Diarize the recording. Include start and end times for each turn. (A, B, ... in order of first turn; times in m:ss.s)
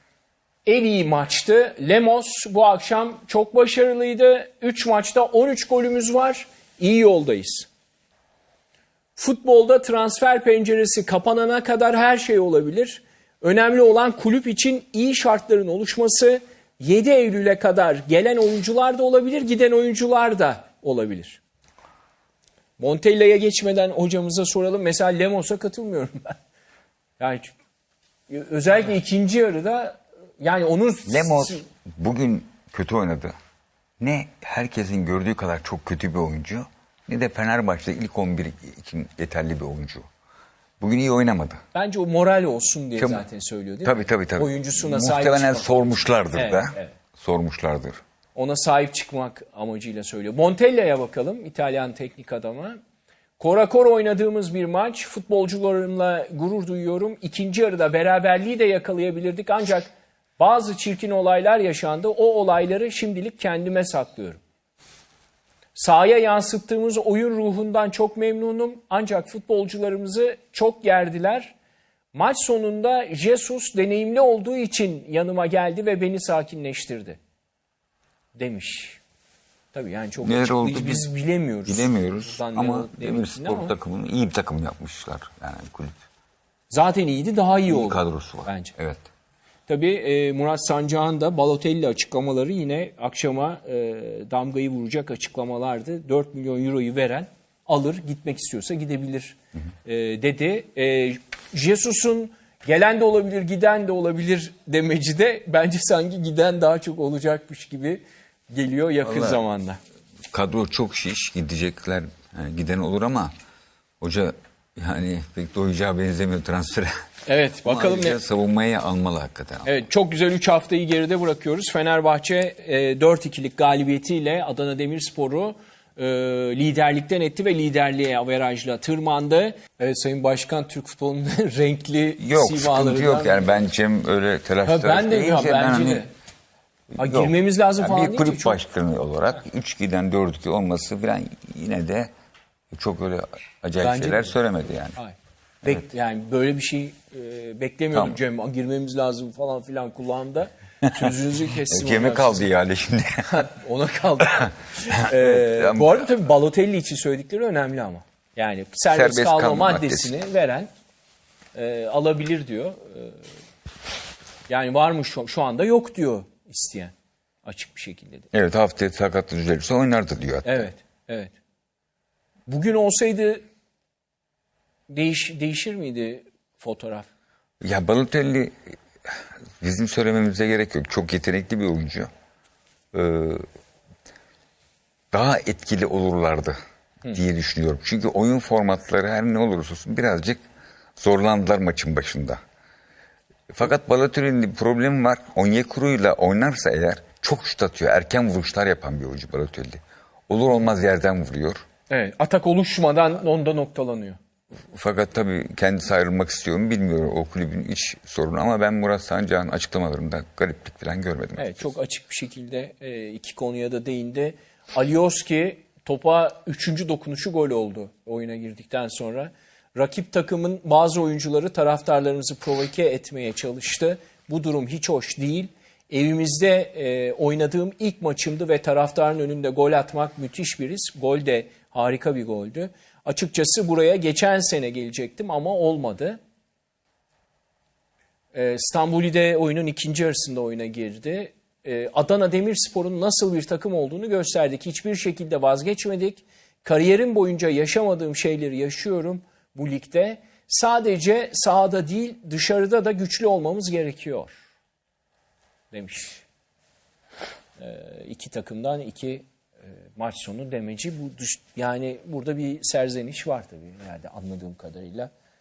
0:00.6-0:07.7 A
0:09.2-0:21.4 A
0:22.8-0:26.3 A
0:27.2-0:27.5 A
0:28.3-0:31.6 A
0:31.1-0:33.3 B
0:34.0-0:40.0 B
0:40.8-0:41.6 B
0:41.7-0:45.7 A
0:43.0-0:43.2 B
0:43.8-0:48.0 B
0:46.3-0:47.0 A
0:48.3-0:52.8 A
0:53.4-1:04.4 A
1:05.7-1:11.5 A
1:12.1-1:17.2 A
1:18.3-1:19.0 A
1:19.7-1:23.7 A
1:20.2-1:21.1 B
1:21.6-1:26.0 B
1:26.7-1:28.7 A
1:27.7-1:29.0 B
1:29.7-1:49.8 A
1:49.0-1:49.4 B
1:50.3-1:53.3 B
1:54.0-1:57.0 B
1:57.2-1:58.2 A
1:57.6-1:59.7 B
1:59.6-2:13.7 A
2:12.2-2:16.0 B
2:14.6-2:16.1 A
2:16.9-2:22.1 B
2:17.0-2:18.6 A
2:22.7-2:25.0 B
2:23.8-2:24.4 A
2:24.9-2:32.5 A
2:27.9-2:28.2 B
2:31.7-2:33.4 B
2:33.3-2:40.7 A
2:34.4-2:36.0 B
2:38.9-2:40.1 B
2:41.5-2:43.2 A
2:44.5-2:48.3 A
2:48.3-2:50.7 B
2:50.4-2:51.4 A
2:52.5-2:53.4 A
2:54.9-2:57.1 A
2:57.6-3:02.1 B
3:02.9-3:03.4 B
3:05.1-3:06.6 B
3:07.1-3:10.4 B
3:11.0-3:12.4 B
3:13.5-3:21.6 B
3:21.9-3:24.2 A
3:24.7-3:31.7 B
3:31.4-3:56.2 A
3:58.3-4:14.4 A
4:15.7-4:16.2 A
4:17.6-4:19.2 A
4:20.0-4:25.1 A